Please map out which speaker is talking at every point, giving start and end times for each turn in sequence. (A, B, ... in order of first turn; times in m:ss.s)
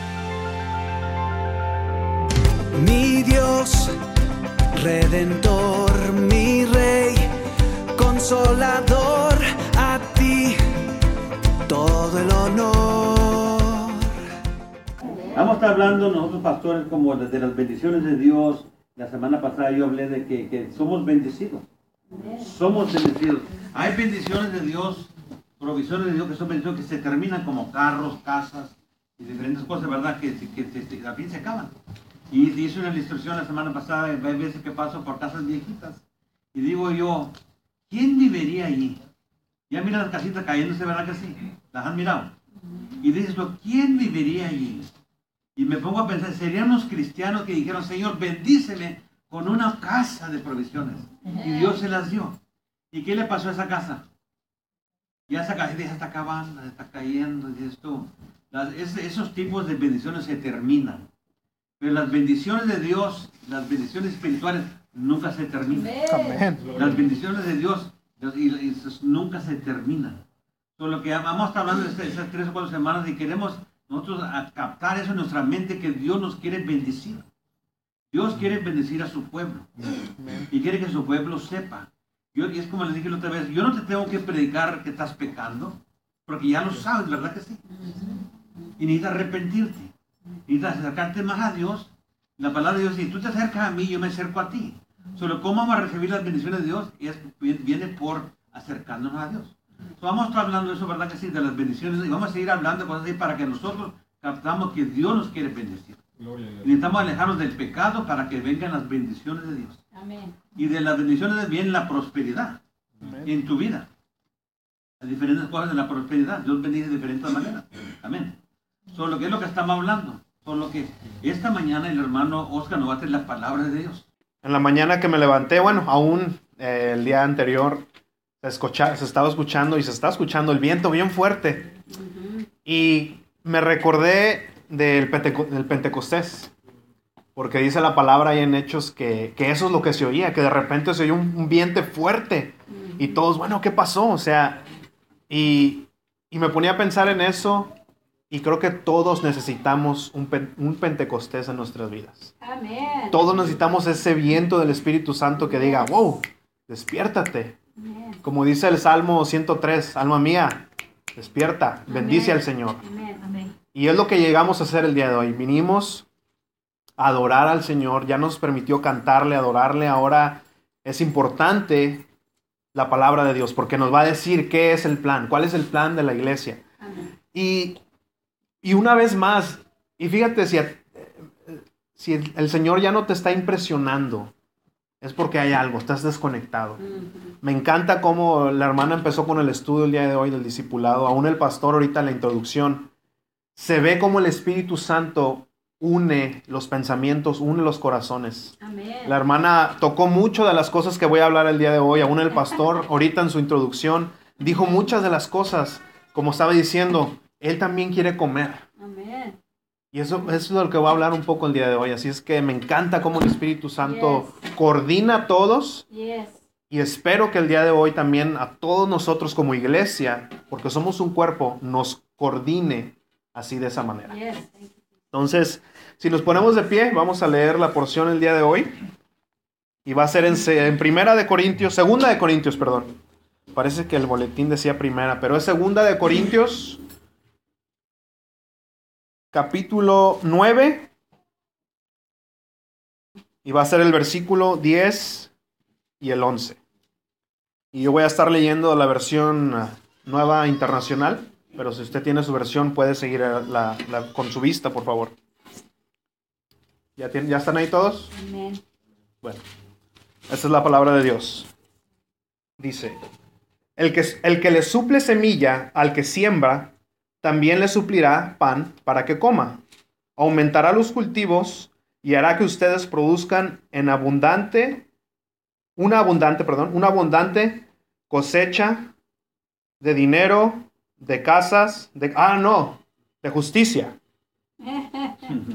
0:02.7-0:04.0 A
0:04.7-0:07.3 A
0:07.9-0:11.0 A
0:11.7-0:14.1 A
0:15.3-0:21.6 B
0:22.1-0:22.5 C
0:22.4-0:31.7 B
0:32.3-0:36.0 B
0:36.5-0:37.3 B
0:37.9-0:39.0 B
0:39.7-0:42.3 B
0:43.0-0:44.9 B
0:45.6-0:52.4 B
0:52.9-0:54.0 B
0:55.3-1:01.1 B
1:01.8-1:05.9 B
1:05.7-1:06.5 C
1:06.0-1:06.8 D
1:06.6-1:10.2 B
1:10.8-1:17.2 B
1:18.1-1:19.7 B
1:20.2-1:20.5 D
1:20.5-1:27.6 B
1:27.7-1:28.3 C
1:28.8-1:29.9 B
1:30.5-1:49.8 B
1:49.9-1:50.4 C
1:50.5-1:52.6 B
1:53.0-1:53.3 D
1:53.2-1:53.9 B
1:55.0-1:58.4 B
1:58.9-2:04.0 B
2:04.4-2:07.9 D
2:08.4-2:11.6 D
2:11.9-2:12.5 C
2:12.6-2:16.5 D
2:17.4-2:24.6 D
2:22.7-2:23.0 C
2:25.3-2:27.7 D
2:28.3-2:32.3 D
2:32.4-2:33.2 C
2:33.1-2:37.6 D
2:37.8-2:38.2 C
2:38.2-2:42.8 D
2:41.9-2:43.5 C
2:43.7-2:46.0 D
2:47.0-2:52.0 D
2:52.7-2:56.6 D
2:56.8-2:57.1 C
2:57.3-2:57.8 D
2:58.6-3:04.3 D
3:05.0-3:06.8 D
3:06.8-3:07.3 C
3:07.4-3:12.9 D
3:13.6-3:18.5 D
3:18.6-3:19.2 C
3:19.0-3:28.6 D
3:28.8-3:29.4 C
3:29.9-3:35.8 D
3:33.8-3:34.3 C
3:35.9-3:36.4 C
3:36.7-3:44.1 D
3:44.1-3:44.7 C
3:45.1-3:48.7 D
3:49.8-3:53.0 D
3:53.5-3:56.8 D
3:59.3-4:00.9 D
4:03.4-4:05.3 D
4:06.0-4:06.6 D
4:07.7-4:15.2 D
4:17.0-4:18.1 D
4:18.1-4:18.6 C
4:20.3-4:21.5 D
4:22.6-4:23.0 D
4:23.8-4:29.6 D
4:30.2-4:34.8 D
4:35.8-4:38.9 D
4:39.8-4:44.0 D
4:44.6-4:45.3 C